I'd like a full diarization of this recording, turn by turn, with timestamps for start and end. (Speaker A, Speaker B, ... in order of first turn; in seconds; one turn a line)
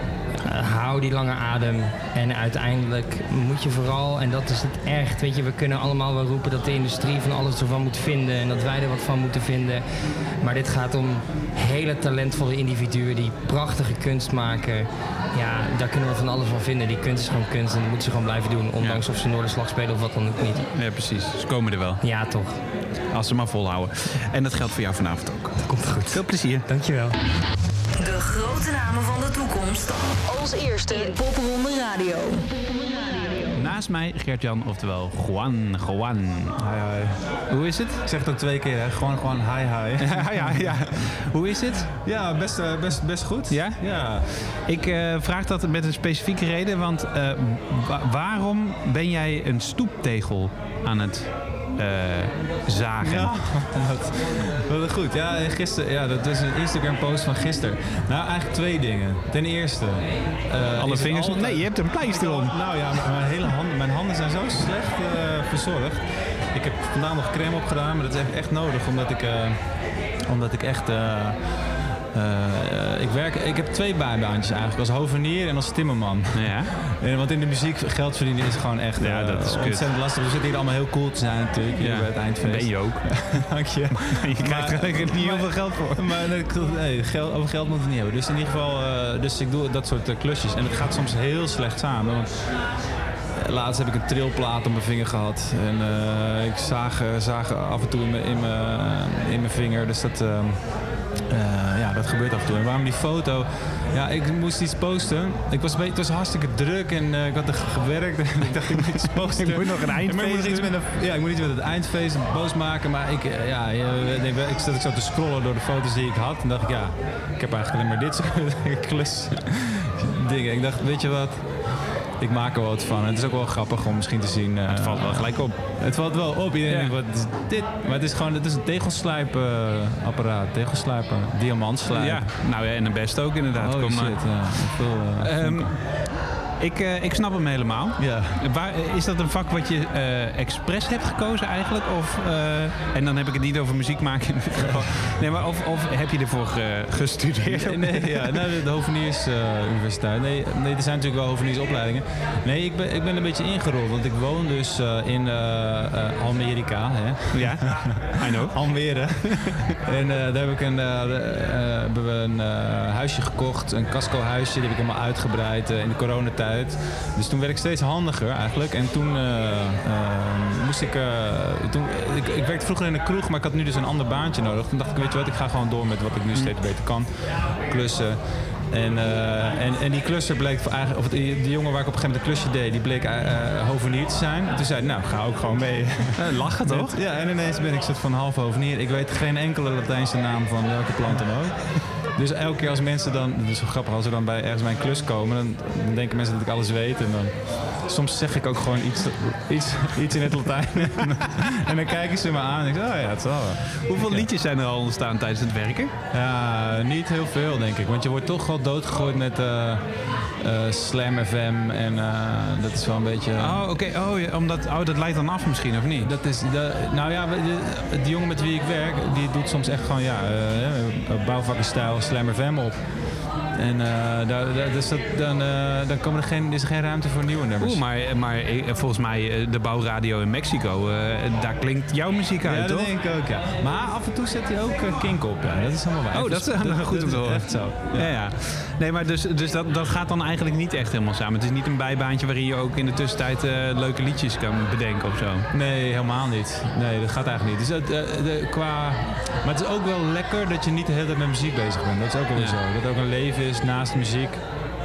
Speaker A: 0.4-20.7
Speaker B: 20.7-22.0
Speaker A: 22.0-22.6
Speaker B: 23.1-26.7
Speaker A: 26.7-27.1
Speaker C: 28.0-32.5
Speaker B: 33.5-36.6
Speaker D: 36.6-37.2
Speaker B: 37.5-38.0
Speaker D: 38.0-41.1
Speaker B: 40.0-41.9
Speaker D: 42.0-44.3
Speaker B: 43.5-53.8
Speaker D: 53.0-92.7
Speaker B: 60.8-62.6
Speaker B: 76.3-76.7
Speaker B: 79.0-79.8
Speaker B: 81.8-86.2
Speaker D: 93.3-132.3
Speaker B: 109.2-110.7
Speaker B: 124.7-125.6
Speaker B: 126.7-127.0
Speaker B: 131.9-148.6
Speaker D: 133.6-135.8
Speaker D: 138.0-138.4
Speaker D: 147.5-204.3
Speaker B: 157.3-159.6
Speaker B: 186.2-187.0
Speaker B: 203.8-205.9
Speaker D: 206.1-213.6
Speaker B: 213.4-216.1
Speaker D: 216.0-227.8
Speaker B: 227.6-232.9
Speaker D: 232.4-238.2
Speaker B: 236.1-245.5
Speaker D: 245.5-254.5